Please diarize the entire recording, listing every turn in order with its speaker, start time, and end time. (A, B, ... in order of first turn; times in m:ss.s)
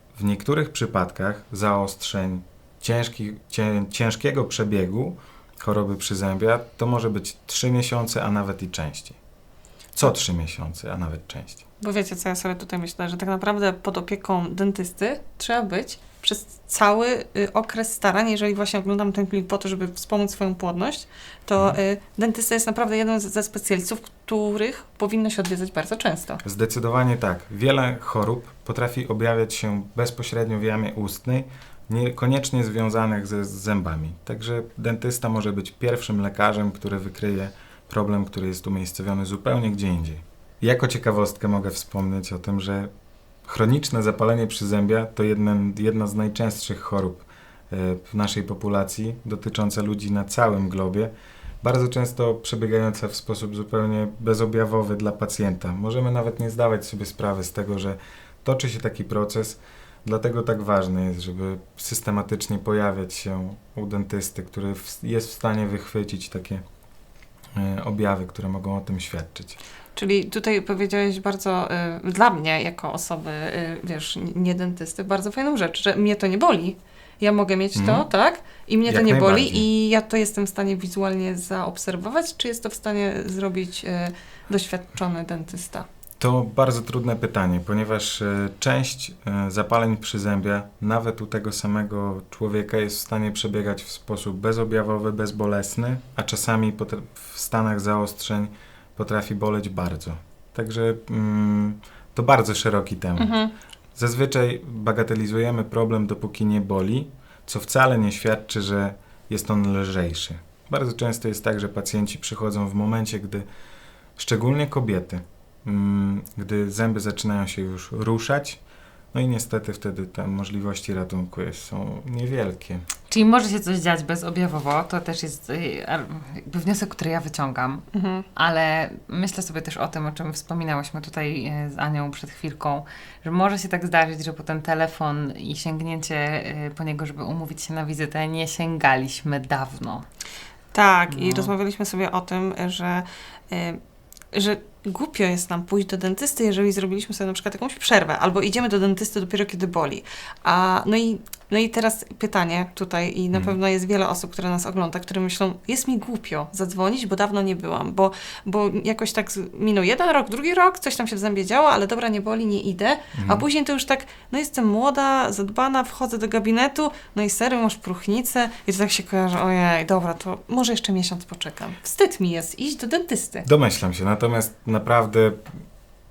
0:00.2-0:09.2 A
0:10.0-0:11.6 A
0:11.8-0:26.4 B
0:26.4-0:42.9 A
0:43.4-0:51.1 A
0:51.6-1:06.6 A
1:07.6-1:09.6 A
1:10.0-1:25.9 B
1:17.8-1:18.1 A
1:18.8-1:19.7 A
1:26.2-1:43.4 A
1:43.2-1:43.5 B
1:44.0-1:53.4 A
1:54.2-1:58.6 A
1:59.1-2:02.8 A
2:03.1-2:20.0 C
2:07.9-2:08.3 B
2:20.7-2:23.8 B
2:21.1-2:21.5 C
2:24.3-2:53.5 B
2:43.2-2:43.5 A
2:53.4-2:55.5 A